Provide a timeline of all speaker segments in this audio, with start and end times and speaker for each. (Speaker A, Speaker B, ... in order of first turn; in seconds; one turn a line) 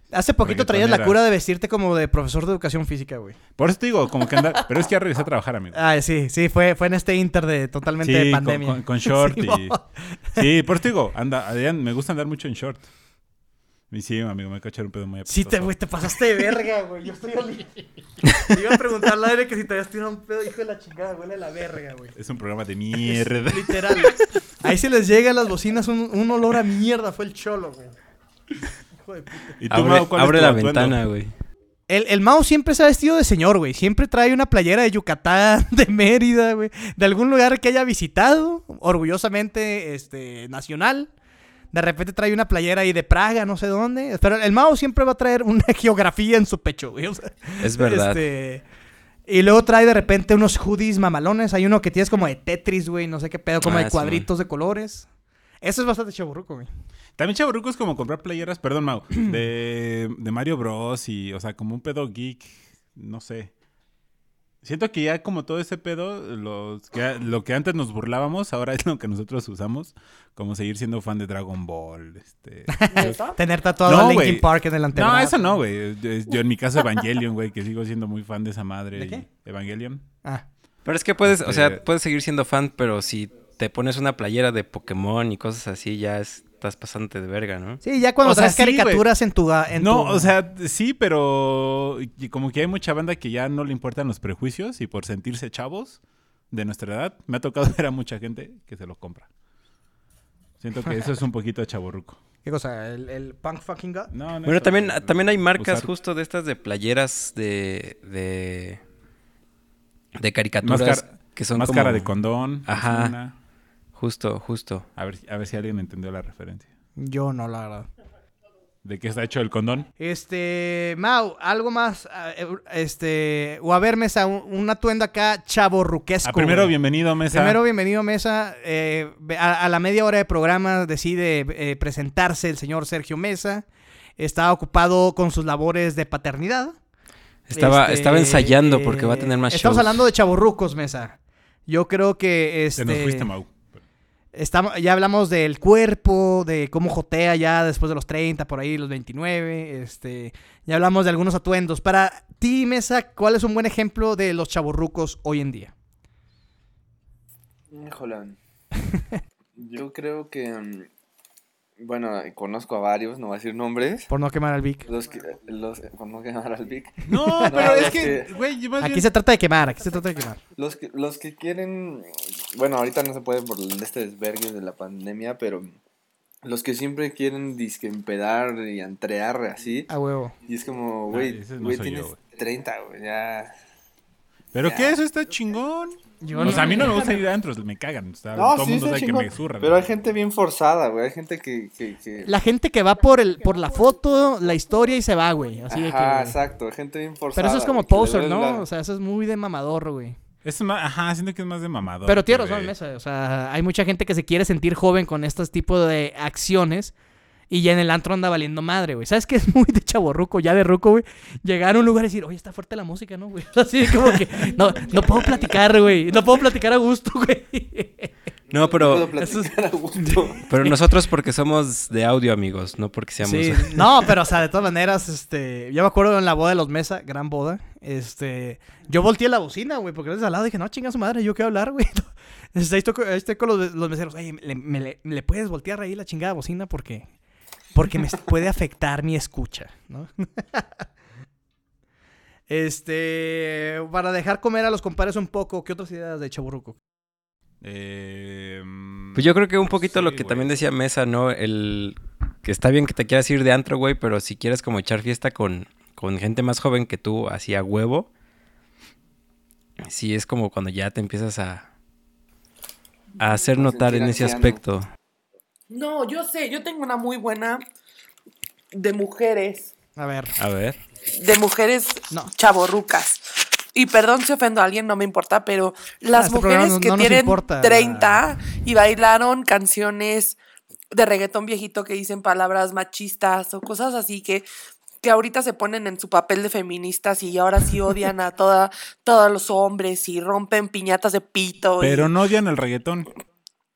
Speaker A: 0.1-3.4
Speaker B: 0.4-1.2
Speaker B: 3.6-5.8
Speaker A: 5.7-10.4
Speaker B: 8.0-9.8
Speaker B: 10.4-12.9
Speaker B: 13.9-15.8
Speaker A: 15.3-22.1
Speaker B: 22.1-24.2
Speaker A: 23.0-27.9
Speaker A: 29.1-29.5
Speaker B: 29.6-31.0
Speaker C: 29.7-31.3
Speaker A: 31.9-41.1
Speaker A: 41.7-48.6
Speaker C: 47.6-48.2
Speaker A: 49.3-55.1
Speaker C: 53.6-54.3
Speaker A: 55.6-56.7
Speaker B: 57.2-63.5
Speaker B: 64.6-73.2
Speaker A: 72.7-75.6
Speaker D: 72.9-73.4
Speaker B: 73.8-80.0
Speaker A: 79.0-79.2
Speaker C: 80.8-87.8
Speaker B: 81.2-81.8
Speaker A: 87.8-90.3
Speaker B: 88.2-89.1
Speaker B: 89.7-96.0
Speaker B: 96.5-99.3
Speaker B: 100.6-102.2
Speaker A: 102.4-104.1
Speaker B: 104.1-105.9
Speaker C: 104.5-108.8
Speaker C: 110.2-112.1
Speaker B: 110.6-113.3
Speaker C: 112.7-113.1
Speaker C: 114.0-114.9
Speaker B: 115.0-116.7
Speaker A: 117.0-117.9
Speaker B: 118.8-119.9
Speaker A: 120.0-126.8
Speaker B: 126.2-127.6
Speaker A: 127.3-133.7
Speaker A: 134.2-136.8
Speaker C: 137.5-140.0
Speaker A: 137.5-143.3
Speaker B: 142.8-143.8
Speaker A: 144.3-155.7
Speaker E: 157.7-158.4
Speaker A: 158.9-159.2
Speaker E: 159.6-160.9
Speaker E: 161.8-164.1
Speaker A: 164.1-164.9
Speaker E: 164.9-168.3
Speaker B: 167.1-169.1
Speaker A: 167.1-167.9
Speaker A: 168.8-170.4
Speaker E: 170.6-175.8
Speaker E: 176.4-179.9
Speaker A: 179.9-180.3
Speaker E: 180.4-183.5
Speaker B: 181.1-182.2
Speaker B: 184.5-189.8
Speaker E: 184.7-185.0
Speaker A: 186.2-187.2
Speaker D: 186.4-187.1
Speaker E: 188.3-192.3
Speaker A: 192.2-196.4
Speaker E: 195.7-198.7
Speaker A: 197.3-200.2
Speaker B: 200.4-202.7
Speaker A: 202.1-206.9
Speaker A: 207.5-218.1
Speaker E: 218.5-220.5
Speaker C: 218.5-219.1
Speaker A: 219.2-220.7
Speaker C: 220.5-224.2
Speaker A: 223.2-237.1
Speaker A: 237.7-240.7
Speaker A: 242.5-246.8
Speaker B: 247.6-250.6
Speaker C: 249.2-258.1
Speaker C: 259.8-261.7
Speaker C: 263.2-264.9
Speaker E: 263.5-264.6
Speaker D: 265.7-267.6
Speaker D: 268.7-269.7
Speaker A: 270.0-270.4
Speaker C: 270.4-270.8
Speaker D: 271.1-280.4
Speaker A: 276.1-278.2
Speaker D: 280.9-284.5
Speaker D: 285.0-292.1
Speaker B: 291.8-293.1